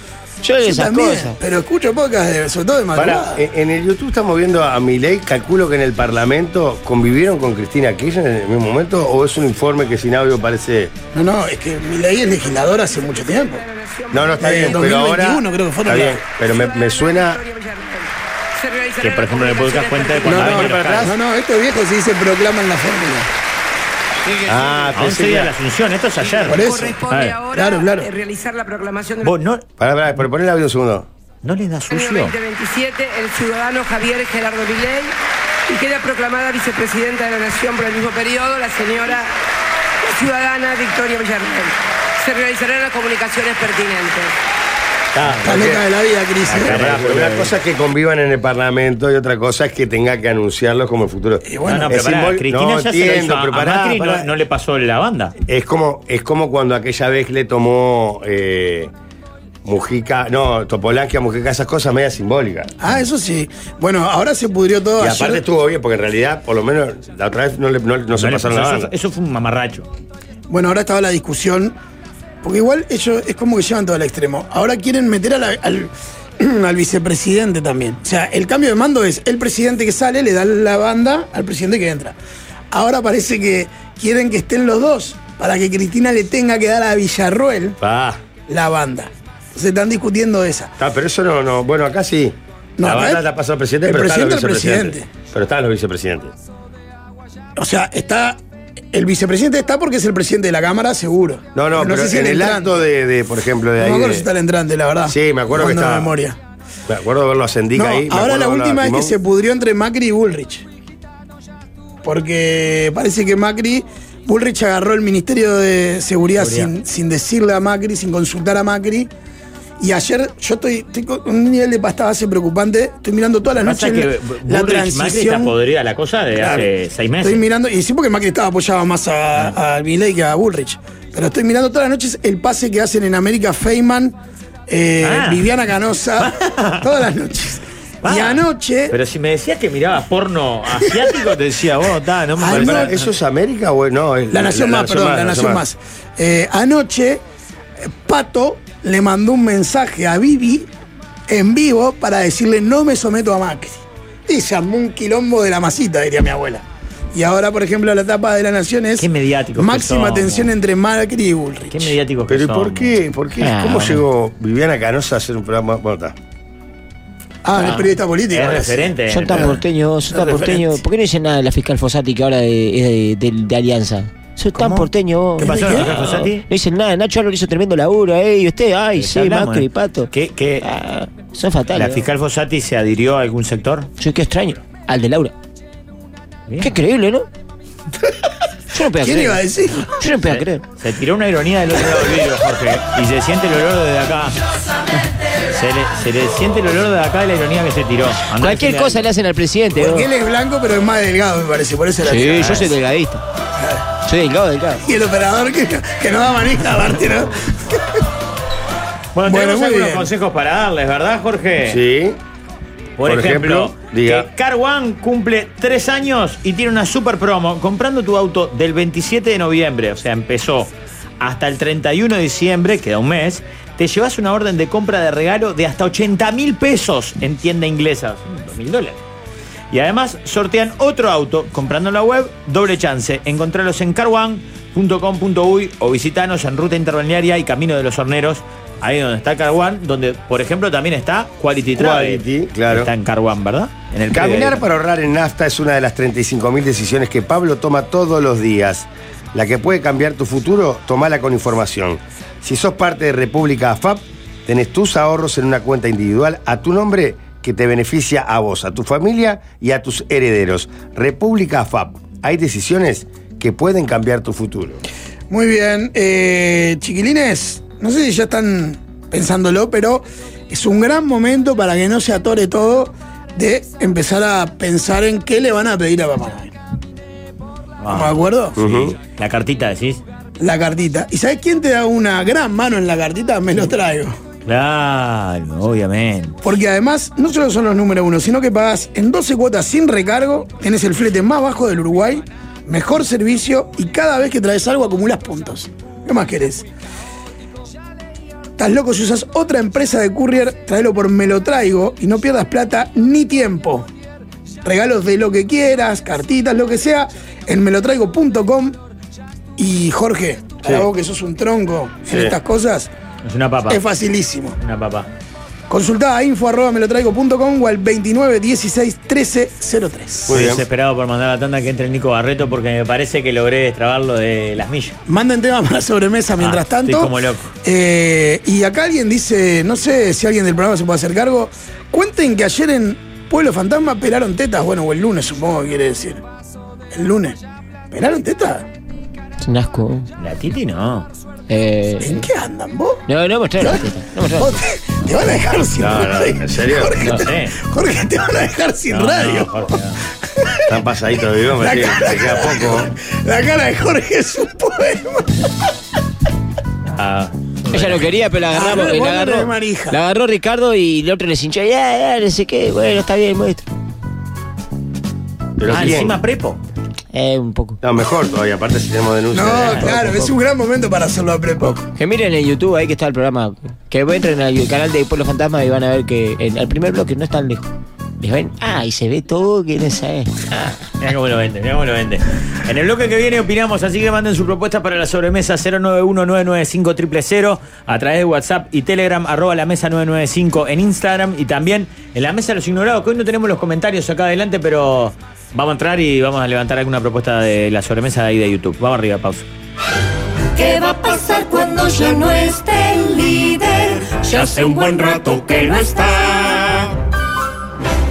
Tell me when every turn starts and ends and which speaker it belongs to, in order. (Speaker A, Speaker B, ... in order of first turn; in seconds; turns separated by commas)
Speaker A: 0.4-1.4, Speaker B: 0.6-3.4, Speaker C: 2.9-10.9, Speaker B: 11.1-13.6, Speaker D: 12.9-14.8, Speaker C: 14.1-17.4, Speaker B: 14.4-16.2, Speaker D: 16.4-20.7, Speaker E: 19.0-21.1, Speaker B: 20.2-23.3, Speaker C: 20.8-21.1, Speaker C: 24.4-25.5, Speaker E: 24.9-27.4, Speaker D: 26.4-29.4, Speaker B: 26.4-27.0, Speaker B: 27.5-28.1, Speaker E: 29.2-29.6, Speaker C: 29.8-31.1, Speaker E: 31.4-32.3, Speaker D: 31.9-35.1, Speaker D: 35.7-39.3, Speaker D: 40.0-44.3, Speaker E: 45.1-45.7, Speaker C: 45.1-45.9, Speaker B: 45.4-46.9, Speaker E: 46.5-47.5, Speaker C: 46.5-54.3, Speaker B: 51.4-52.0, Speaker E: 51.6-55.3, Speaker C: 55.5-58.9, Speaker C: 59.6-62.7, Speaker B: 62.8-65.4, Speaker C: 65.0-68.9, Speaker E: 68.1-69.9, Speaker B: 70.5-71.8, Speaker B: 72.4-82.2, Speaker B: 82.7-87.8, Speaker C: 87.8-88.2, Speaker B: 88.5-90.7, Speaker C: 90.8-96.3, Speaker B: 92.8-93.2, Speaker B: 93.8-95.1, Speaker B: 97.6-98.4, Speaker B: 98.9-102.8, Speaker C: 101.5-104.3, Speaker B: 103.8-106.4, Speaker C: 105.0-106.2, Speaker C: 106.9-109.2, Speaker B: 107.7-110.6, Speaker B: 112.0-119.1, Speaker E: 116.4-116.7, Speaker B: 119.8-125.5, Speaker E: 123.6-127.4, Speaker B: 126.3-126.7, Speaker B: 127.2-134.2, Speaker B: 134.7-138.9, Speaker E: 135.0-135.4, Speaker E: 136.2-136.9, Speaker E: 138.0-143.0, Speaker B: 142.4-142.9, Speaker C: 142.4-145.6, Speaker B: 144.3-147.2, Speaker B: 147.8-150.7, Speaker B: 151.3-161.9, Speaker E: 159.0-160.5, Speaker E: 161.7-163.0, Speaker C: 162.3-166.2, Speaker A: 163.4-164.0, Speaker B: 167.4-169.5, Speaker E: 167.6-169.6, Speaker A: 169.1-180.1, Speaker B: 170.1-170.8, Speaker B: 174.6-174.9, Speaker B: 175.4-175.9, Speaker E: 175.4-176.4, Speaker E: 179.0-180.7, Speaker A: 180.6-182.1, Speaker E: 181.7-183.9, Speaker A: 184.0-185.3, Speaker E: 186.5-186.7, Speaker A: 186.6-187.2, Speaker A: 188.7-190.6, Speaker B: 189.0-189.9, Speaker E: 190.2-194.3, Speaker E: 195.5-199.0, Speaker A: 198.4-200.1, Speaker B: 199.7-202.7, Speaker A: 202.0-203.2, Speaker E: 202.4-202.7, Speaker A: 204.0-204.8, Speaker B: 204.8-208.0, Speaker E: 209.1-211.8, Speaker B: 209.2-210.1, Speaker C: 211.7-212.2, Speaker E: 213.0-229.0, Speaker C: 213.0-214.3, Speaker E: 229.7-244.6, Speaker C: 241.7-242.9, Speaker C: 244.1-264.8, Speaker B: 265.3-276.5, Speaker E: 277.8-280.0, Speaker B: 277.9-278.6, Speaker C: 278.6-278.9, Speaker B: 280.4-284.2, Speaker E: 284.4-286.4, Speaker B: 286.4-296.6, Speaker B: 298.6-303.9, Speaker B: 304.6-308.8, Speaker B: 309.6-312.9, Speaker C: 310.6-310.9, Speaker C: 312.1-312.4, Speaker E: 313.2-313.8, Speaker B: 313.7-314.6, Speaker E: 314.6-315.1, Speaker B: 315.7-320.4, Speaker C: 320.3-320.6, Speaker E: 320.3-325.0, Speaker B: 325.1-336.2, Speaker E: 326.4-327.5, Speaker B: 336.9-337.4, Speaker B: 337.9-338.6, Speaker A: 339.4-340.1, Speaker E: 340.2-341.1, Speaker A: 341.5-342.3, Speaker B: 342.0-343.0, Speaker A: 343.1-344.6, Speaker B: 344.4-349.6, Speaker C: 345.8-347.0, Speaker E: 347.1-347.6, Speaker E: 348.9-350.0, Speaker B: 350.2-350.8, Speaker C: 350.7-352.9, Speaker B: 351.6-355.5, Speaker E: 356.8-358.1, Speaker A: 357.7-363.6, Speaker B: 358.5-360.0, Speaker C: 365.6-366.2, Speaker E: 365.7-366.6, Speaker A: 367.1-367.8, Speaker C: 367.8-370.3, Speaker B: 369.3-371.9, Speaker A: 371.9-380.8, Speaker E: 381.0-399.5, Speaker F: 400.6-406.9